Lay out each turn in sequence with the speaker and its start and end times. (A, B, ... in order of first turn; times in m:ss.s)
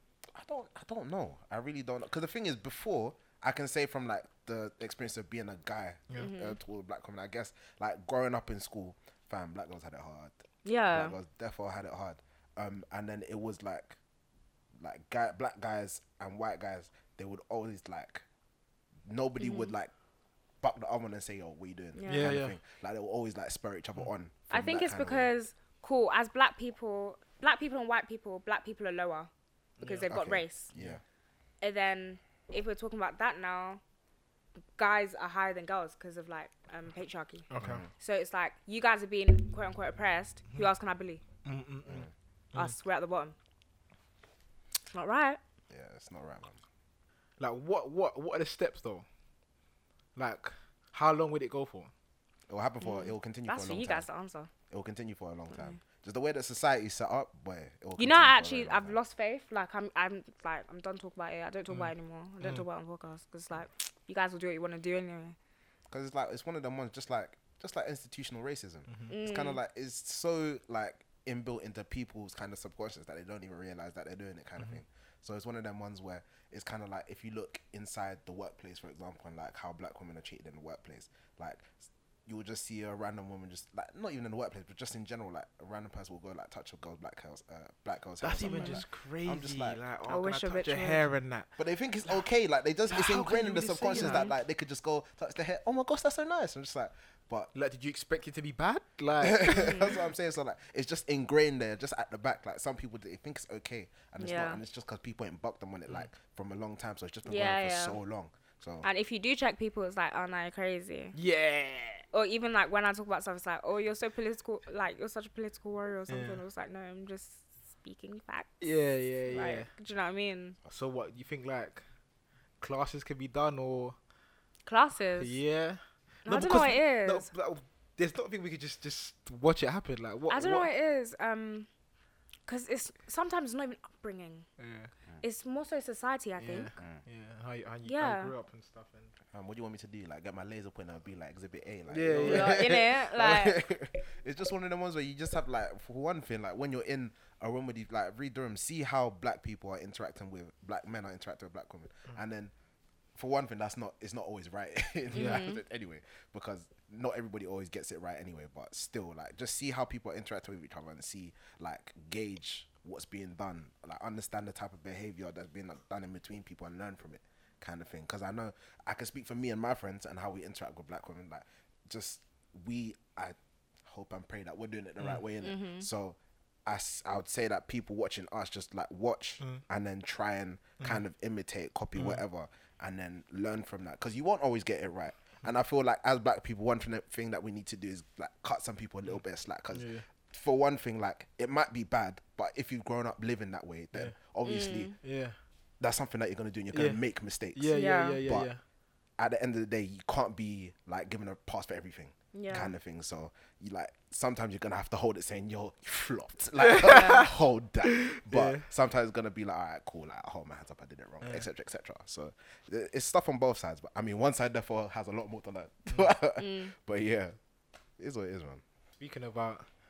0:00.3-0:10.4 A
0:06.2-0:06.6 B
0:10.6-0:11.1 B
0:10.9-0:14.0 A
0:14.8-0:18.2 A
0:19.0-0:19.9 A
0:19.4-0:19.7 B
0:20.6-0:25.3 A
0:22.0-0:22.3 B
0:22.1-0:22.6 C
0:24.5-0:29.3 B
0:29.8-0:30.1 C
0:29.8-0:30.7 B
0:30.1-0:31.0 A
0:31.6-0:33.8 B
0:34.8-0:37.4 B
0:37.5-0:37.8 C
0:37.6-0:37.9 A
0:38.0-0:41.2 B
0:41.4-0:42.7 C
0:41.8-0:42.1 A
0:42.5-0:43.3 B
0:44.9-0:45.4 B
0:45.7-0:46.6 A
0:47.4-0:49.0 C
0:50.2-0:51.9 C
0:52.5-0:54.1 A
0:52.8-0:54.5 B
0:54.7-0:59.0 A
0:55.5-0:55.8 B
0:58.0-1:05.4 B
1:01.7-1:02.6 C
1:05.9-1:29.8 A
1:09.1-1:09.6 B
1:28.2-1:31.5 C
1:28.4-1:28.8 B
1:30.1-1:31.0 B
1:31.6-1:37.5 A
1:32.9-1:34.3 C
1:34.0-1:34.3 B
1:37.5-1:39.8 C
1:39.2-1:48.8 A
1:39.5-1:39.9 B
1:44.2-1:44.6 B
1:47.2-1:48.0 B
1:48.8-1:51.1 B
1:51.1-1:52.0 C
1:52.1-1:58.7 B
1:56.1-1:56.4 C
1:58.6-1:59.7 C
1:59.3-2:00.6 B
2:00.7-2:01.8 C
2:02.6-2:04.0 C
2:04.6-2:05.4 B
2:05.2-2:10.7 C
2:06.2-2:07.3 B
2:10.3-2:11.7 B
2:12.5-2:14.4 B
2:14.6-2:14.9 C
2:15.2-2:16.7 B
2:16.4-2:19.1 C
2:16.8-2:17.0 A
2:17.8-2:18.3 B
2:19.3-2:32.5 A
2:21.9-2:22.7 C
2:22.2-2:23.6 B
2:33.2-3:14.9 A
2:35.1-2:35.6 B
2:35.1-2:35.5 C
2:55.4-2:55.9 B
3:01.9-3:02.2 C
3:09.7-3:10.0 C
3:14.4-3:14.9 B
3:15.0-3:15.3 C
3:15.8-3:18.5 A
3:16.7-3:17.0 C
3:17.5-3:18.6 C
3:17.7-3:18.2 B
3:19.2-3:37.4 A
3:22.3-3:22.7 B
3:26.6-3:27.3 C
3:26.8-3:27.2 B
3:27.8-3:28.7 C
3:36.4-3:36.7 B
3:38.0-3:38.6 A
3:39.0-3:39.6 C